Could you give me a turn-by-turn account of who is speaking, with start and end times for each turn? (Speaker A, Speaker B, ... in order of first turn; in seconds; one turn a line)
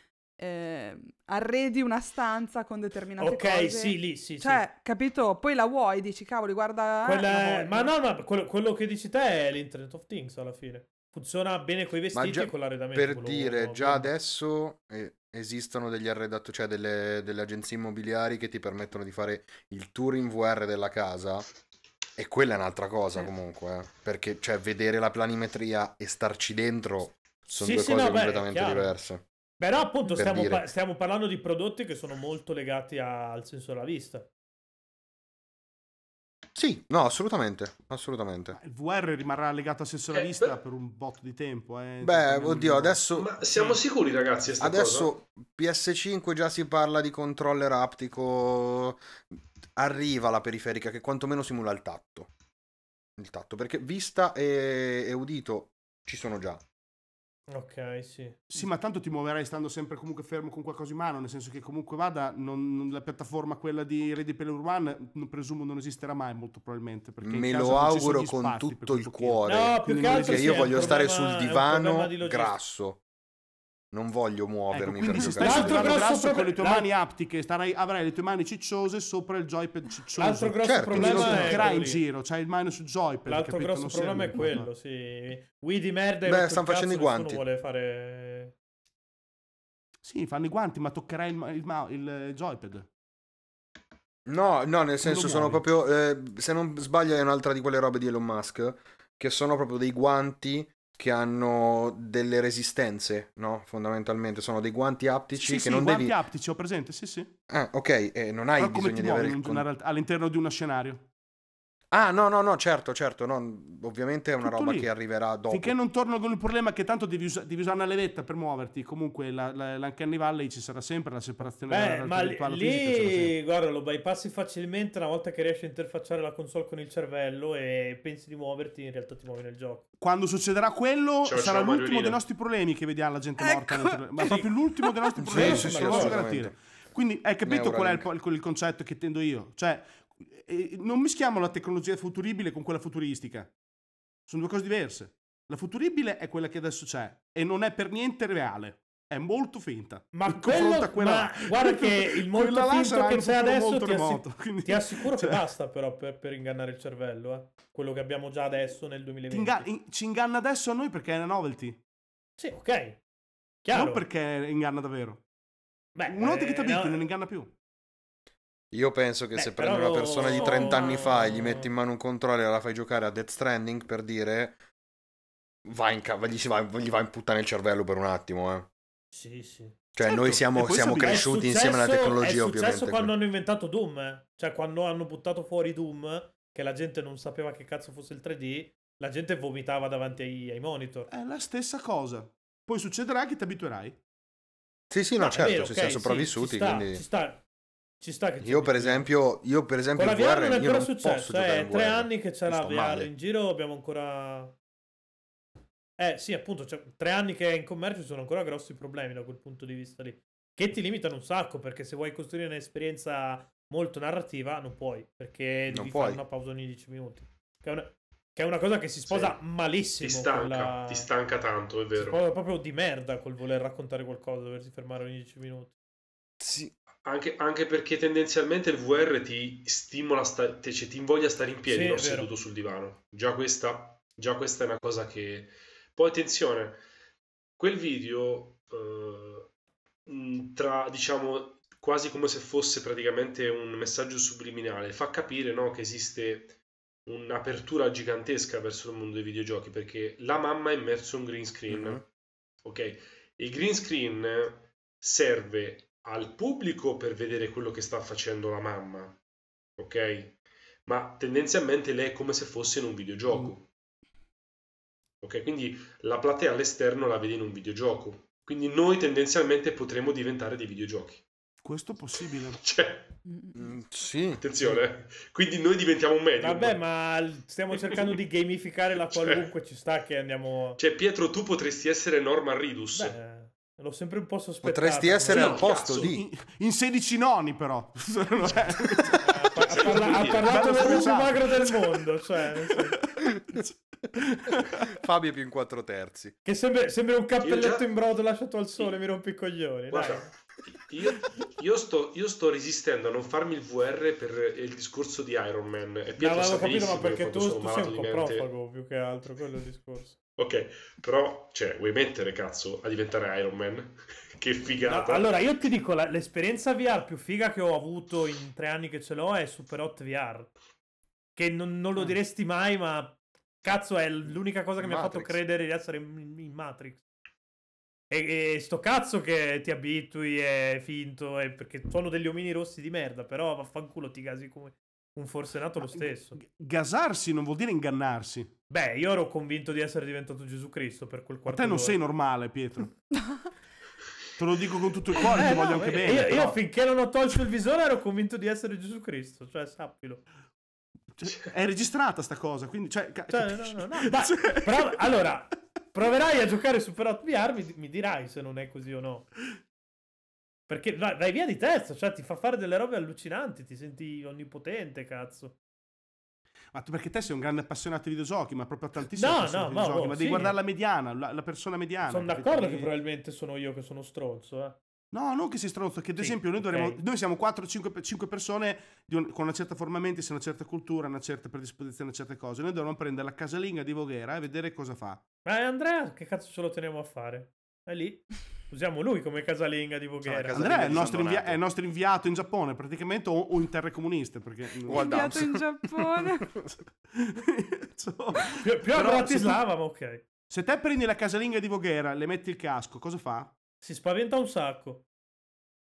Speaker A: 0.4-7.9
Speaker B: 3.2-4.6
Speaker B: 7.0-14.1
Speaker C: 12.1-21.4
Speaker C: 22.2-29.2
Speaker B: 27.6-28.9
Speaker B: 29.6-34.3
Speaker C: 30.2-30.7
Speaker C: 36.5-38.6
Speaker D: 38.5-43.0
Speaker E: 40.1-40.5
Speaker C: 42.0-43.3
Speaker E: 43.1-45.1
Speaker C: 44.6-49.0
Speaker C: 49.8-52.3
Speaker C: 53.2-56.6
Speaker B: 57.5-58.4
Speaker D: 58.5-71.0
Speaker C: 67.2-73.0
Speaker B: 69.5-72.6
Speaker C: 73.9-76.0
Speaker D: 74.7-84.7
Speaker B: 75.1-76.9
Speaker B: 80.2-82.0
Speaker C: 80.6-81.7
Speaker B: 83.3-88.5
Speaker C: 86.3-87.4
Speaker D: 90.0-92.9
Speaker C: 94.3-106.2
Speaker D: 95.0-95.6
Speaker D: 105.3-107.3
Speaker C: 107.5-109.6
Speaker D: 108.6-111.1
Speaker C: 111.9-115.8
Speaker D: 114.4-114.9
Speaker D: 115.5-123.4
Speaker B: 121.7-129.8
Speaker D: 130.0-143.5
Speaker E: 131.3-132.2
Speaker A: 133.4-135.1
Speaker B: 134.2-134.5
Speaker C: 135.2-136.6
Speaker B: 135.3-136.3
Speaker C: 137.4-138.1
Speaker D: 144.3-155.4
Speaker B: 150.1-159.7
Speaker D: 159.3-161.8
Speaker B: 162.4-163.0
Speaker B: 163.6-164.0
Speaker D: 163.7-165.2
Speaker B: 165.9-167.1
Speaker D: 166.1-167.5
Speaker C: 168.7-174.6
Speaker B: 169.4-171.7
Speaker C: 175.7-178.7
Speaker B: 179.1-179.8
Speaker C: 179.9-183.1
Speaker D: 180.0-181.2
Speaker B: 181.0-191.1
Speaker D: 191.1-194.0
Speaker C: 194.9-197.0
Speaker B: 195.2-197.4
Speaker B: 198.0-199.1
Speaker C: 198.4-203.1
Speaker B: 199.9-204.5
Speaker B: 206.0-221.1
Speaker C: 215.7-216.2
Speaker E: 219.1-219.4
Speaker E: 220.0-222.2
Speaker B: 221.9-225.7
Speaker C: 226.4-226.7
Speaker E: 227.1-236.8
Speaker B: 231.7-232.3
Speaker E: 237.6-239.5
Speaker E: 240.1-252.0
Speaker C: 251.7-252.0
Speaker E: 252.6-259.2
Speaker E: 259.8-263.7
Speaker E: 265.2-271.2
Speaker D: 271.6-272.6
Speaker E: 272.6-273.2
Speaker A: 273.3-273.6
Speaker C: 273.6-274.4
Speaker E: 274.4-276.8
Speaker B: 276.4-280.8
Speaker E: 279.1-279.5
Speaker E: 280.8-283.2
Speaker B: 282.9-285.7
Speaker C: 284.6-286.2
Speaker E: 285.3-286.1
Speaker D: 285.9-289.2
Speaker B: 289.2-293.0
Speaker E: 289.7-291.1
Speaker D: 289.8-292.0
Speaker D: 292.7-294.9
Speaker C: 294.8-296.3
Speaker B: 296.4-300.3
Speaker E: 297.4-297.9
Speaker E: 299.9-308.5
Speaker B: 306.2-310.2
Speaker E: 310.4-315.3
Speaker B: 314.9-320.5
Speaker B: 321.4-327.0
Speaker C: 324.8-325.4
Speaker B: 328.1-336.4
Speaker D: 335.8-338.5
Speaker B: 338.7-342.0
Speaker D: 341.5-342.9
Speaker D: 344.4-346.6
Speaker B: 345.2-350.2
Speaker D: 351.1-355.1
Speaker B: 353.3-359.3
Speaker B: 360.7-365.6
Speaker D: 366.7-372.9
Speaker B: 369.1-370.6
Speaker B: 372.1-374.8
Speaker D: 375.1-385.2
Speaker B: 376.2-377.0
Speaker B: 385.4-391.2
Speaker C: 390.2-391.6
Speaker D: 390.5-395.4
Speaker C: 394.8-396.8
Speaker A: 394.9-396.5
Speaker D: 397.1-399.6
Speaker B: 398.6-400.2
Speaker D: 400.5-403.5
Speaker B: 403.8-405.0